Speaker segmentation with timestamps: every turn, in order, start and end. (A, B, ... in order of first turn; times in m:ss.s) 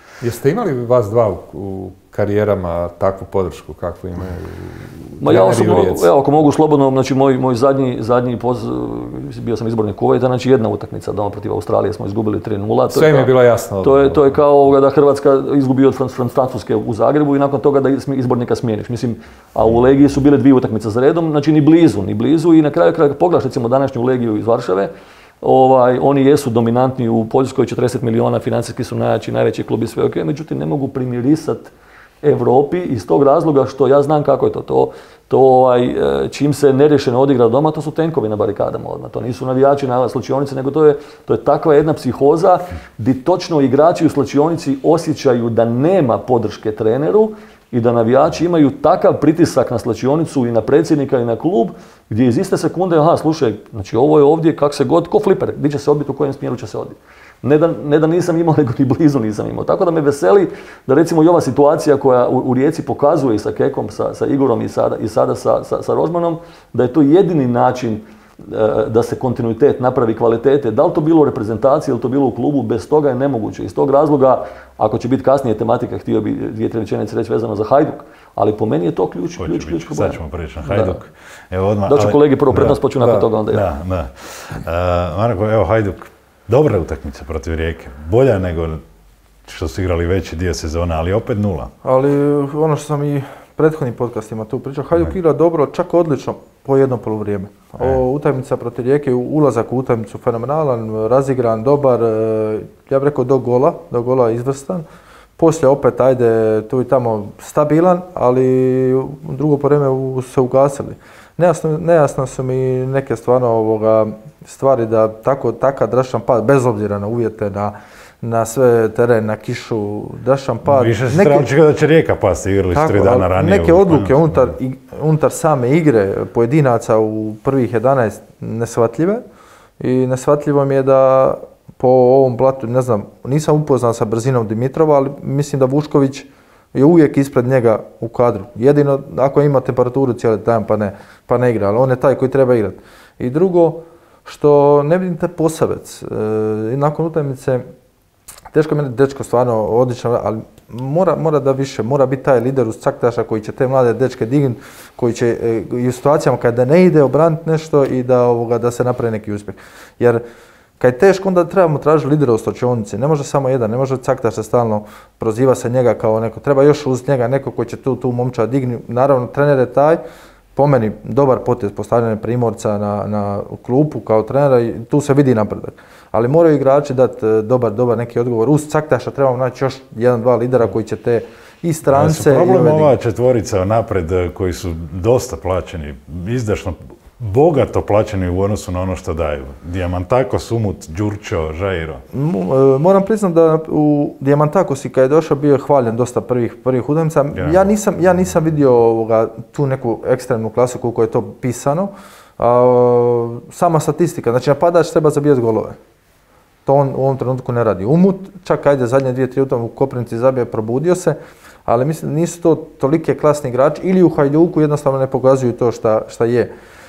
0:00.2-0:06.1 A
0:05.2-0:13.3 B
0:12.9-0:14.4 A
0:13.8-0:24.9 B
0:25.4-1:21.0 B
1:19.4-1:28.8 C
1:21.9-1:23.6 B
1:29.4-1:31.7 C
1:31.8-1:44.8 D
1:45.4-2:01.5 D
2:00.6-2:04.5 C
2:02.7-2:09.2 D
2:09.8-2:27.6 D
2:28.5-2:40.2 D
2:40.8-2:50.0 D
2:50.6-3:02.9 D
3:01.9-3:12.0 C
3:12.1-3:25.8 D
3:17.3-3:17.7 C
3:26.6-3:36.5 D